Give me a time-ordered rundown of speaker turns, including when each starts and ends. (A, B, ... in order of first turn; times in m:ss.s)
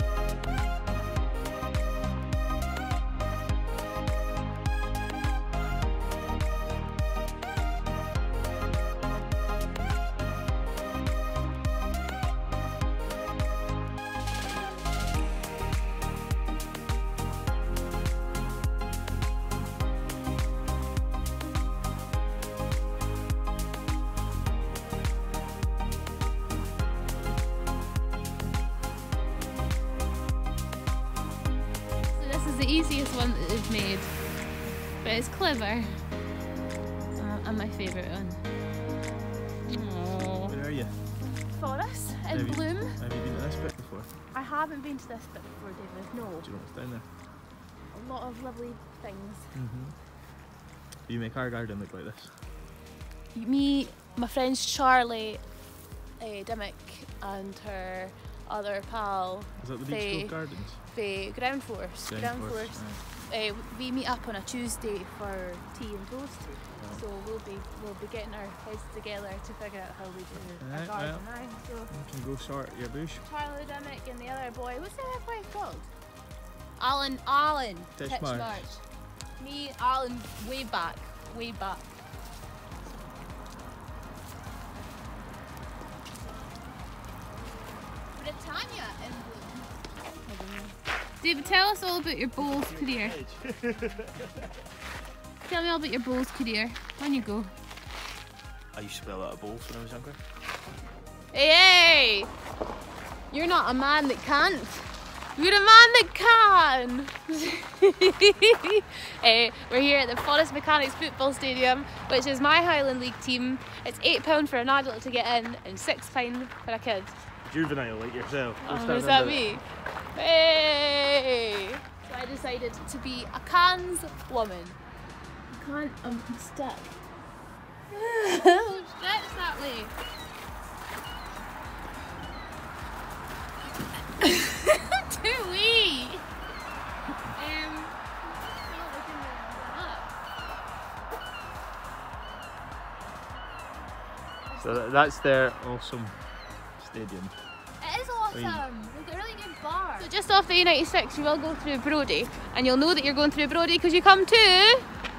0:32.1-0:34.2 A
0:35.0-0:36.0 A
0:37.2-0:38.4 A
0:39.6-0:40.5 A
0:40.5-0:41.0 B
0:41.5-0:43.0 A
0:42.3-0:44.1 B
0:44.3-0:46.5 A
0:46.4-0:47.1 B
0:47.9-0:49.6 A
0:49.5-0:50.0 B
0:51.1-0:52.4 B
0:53.3-0:55.4 A
0:56.2-1:11.9 A
0:59.6-1:00.8 B
1:02.1-1:03.0 B
1:06.8-1:07.0 B
1:10.6-1:11.3 B
1:11.9-1:13.2 B
1:13.2-1:15.9 A
1:16.8-1:18.8 A
1:18.0-1:18.7 B
1:19.4-1:21.9 A
1:28.1-1:33.2 A
1:32.4-1:34.3 B
1:35.4-1:37.5 A
1:38.7-1:40.2 B
1:41.3-1:42.3 A
1:43.3-1:57.2 A
1:57.4-1:59.4 B
1:58.6-2:04.8 A
2:05.5-2:07.0 A
2:07.9-2:09.9 A
2:14.2-2:16.2 A
2:17.3-2:20.1 A
2:24.5-2:25.0 A
2:24.6-2:26.2 B
2:26.8-2:27.3 B
2:27.8-2:34.9 A
2:28.3-2:28.6 B